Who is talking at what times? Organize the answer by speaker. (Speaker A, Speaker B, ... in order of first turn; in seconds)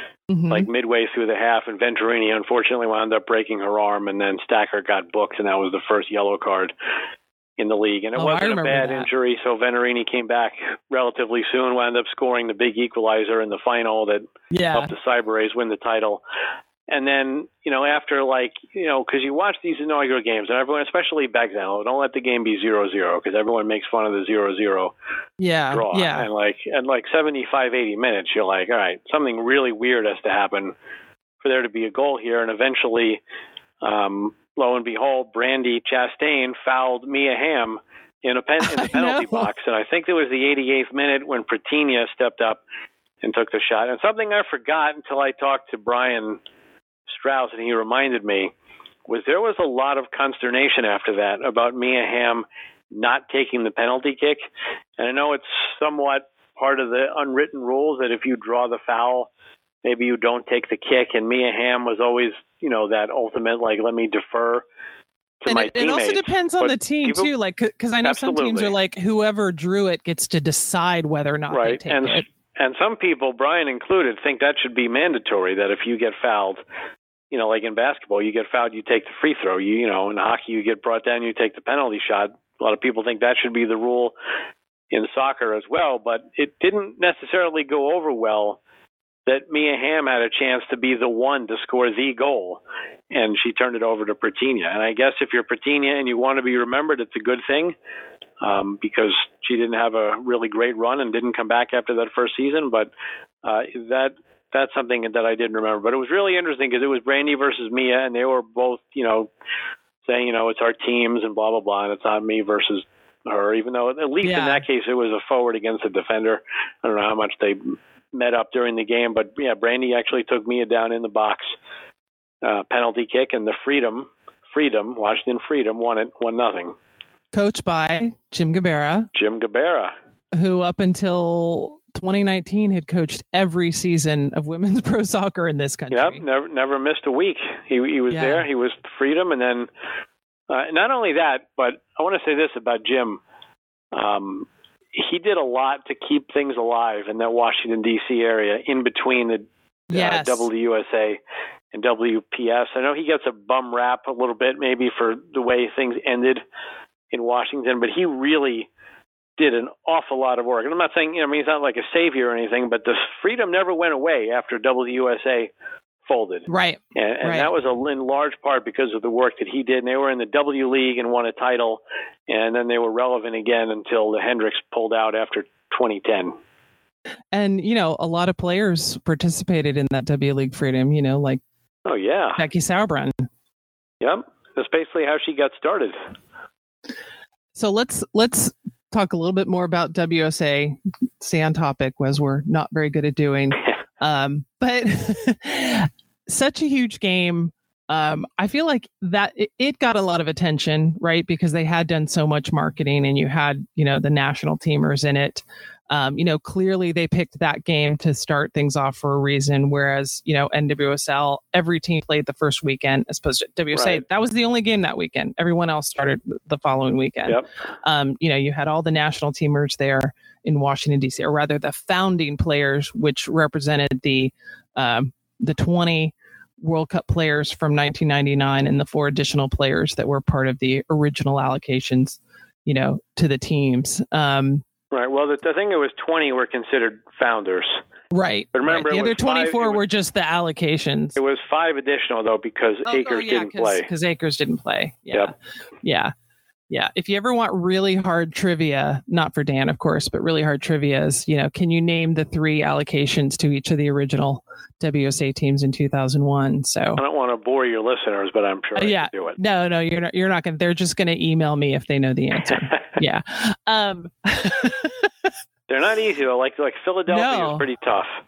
Speaker A: 0.3-0.7, 8.1-9.1, 14.5-14.9, 25.4-26.3, 38.7-39.5, 65.5-72.2, 114.2-114.6, 127.3-129.1, 130.3-136.2, 138.1-138.4, 149.9-150.5, 166.5-167.5, 177.3-181.4, 182.4-183.2, 187.5-234.6, 238.1-241.2, 242.8-246.1, 246.7-257.0, 258.8-265.1, 267.1-267.6
Speaker B: 0.5-6.7, 7.6-16.2, 16.9-24.9, 25.7-30.7, 31.4-33.2, 33.8-42.6, 43.2-46.4, 47.1-48.5, 49.1-54.4, 55.0-59.3, 59.8-64.6, 65.4-67.3, 68.0-68.7, 71.5-76.6, 77.3-84.1, 84.9-88.6, 89.2-97.7, 98.4-102.9, 103.4-109.3, 110.0-121.5, 122.4-126.7, 129.1-129.9, 135.9-139.7, 140.5-143.2, 143.9-151.2, 151.7-156.4, 157.1-158.7, 159.4-165.5, 166.1-176.3, 181.8-182.4, 184.0-186.0, 213.7-214.0, 234.9-237.8, 238.5-239.8, 241.2-243.9, 257.0-259.4, 262.5-262.8, 265.7-268.1